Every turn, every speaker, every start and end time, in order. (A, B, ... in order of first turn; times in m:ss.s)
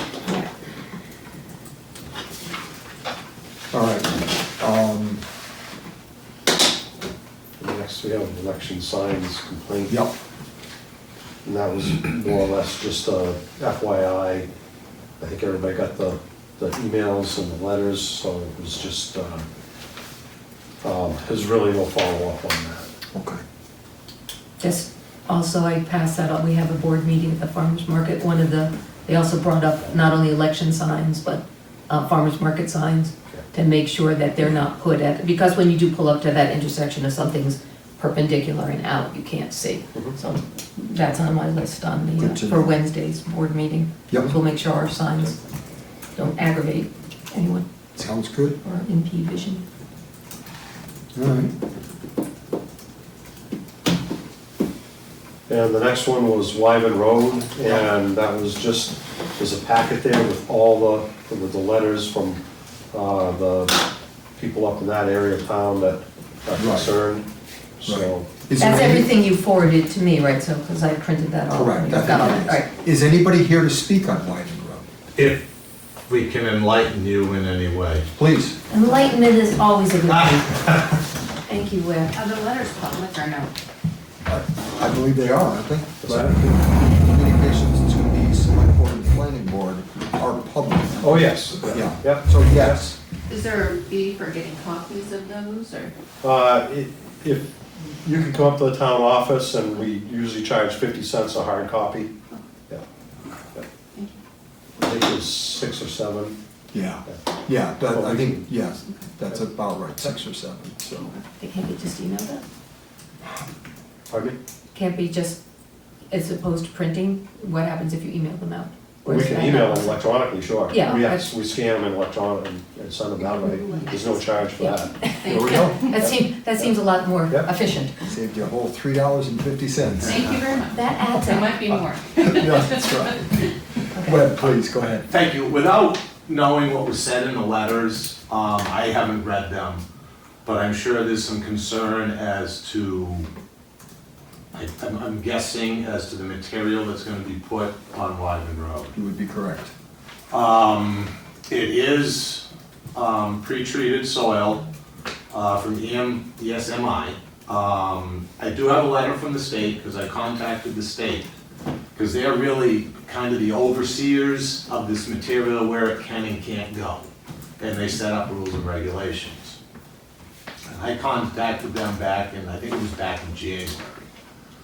0:03.7-0:05.2 A
0:07.6-0:10.0 B
0:09.9-0:10.1 A
0:11.4-0:14.5 B
0:15.2-0:19.4 B
0:20.8-0:22.9 B
0:23.1-0:23.4 A
0:24.6-0:45.4 C
0:42.2-0:42.8 A
0:44.1-0:44.3 A
0:46.2-0:47.6 C
0:48.0-0:48.6 A
0:48.6-0:49.6 C
0:51.1-0:51.5 A
0:55.5-1:02.4 B
1:02.9-1:03.7 B
1:04.4-1:07.3 B
1:06.6-1:06.9 A
1:07.8-1:08.2 B
1:07.8-1:09.1 A
1:08.6-1:12.7 C
1:11.5-1:14.8 A
1:15.2-1:15.5 D
1:16.1-1:18.0 D
1:18.1-1:18.6 A
1:18.7-1:20.6 C
1:20.1-1:21.0 D
1:21.4-1:22.2 C
1:22.1-1:23.5 E
1:24.2-1:32.9 A
1:26.0-1:26.4 B
1:31.0-1:32.9 B
1:33.3-1:35.9 E
1:36.2-1:42.1 B
1:44.8-1:46.4 B
1:46.7-1:51.1 A
1:47.9-1:48.5 B
1:51.0-1:52.4 C
1:54.1-1:54.4 B
1:54.7-1:55.4 C
1:56.1-2:00.0 C
1:59.0-2:06.7 B
2:00.7-2:01.3 C
2:03.5-2:04.0 C
2:04.6-2:08.1 C
2:05.2-2:05.9 E
2:05.2-2:05.8 A
2:08.1-2:10.3 A
2:10.0-2:13.0 E
2:10.7-2:11.6 C
2:12.2-2:15.1 A
2:13.9-2:14.2 C
2:15.1-2:19.8 D
2:20.4-2:23.3 D
2:24.5-2:28.9 D
2:28.9-2:29.7 A
2:30.3-2:34.6 D
2:35.3-2:41.3 D
2:41.9-2:47.1 D
2:47.6-2:49.6 D
2:50.7-2:54.0 D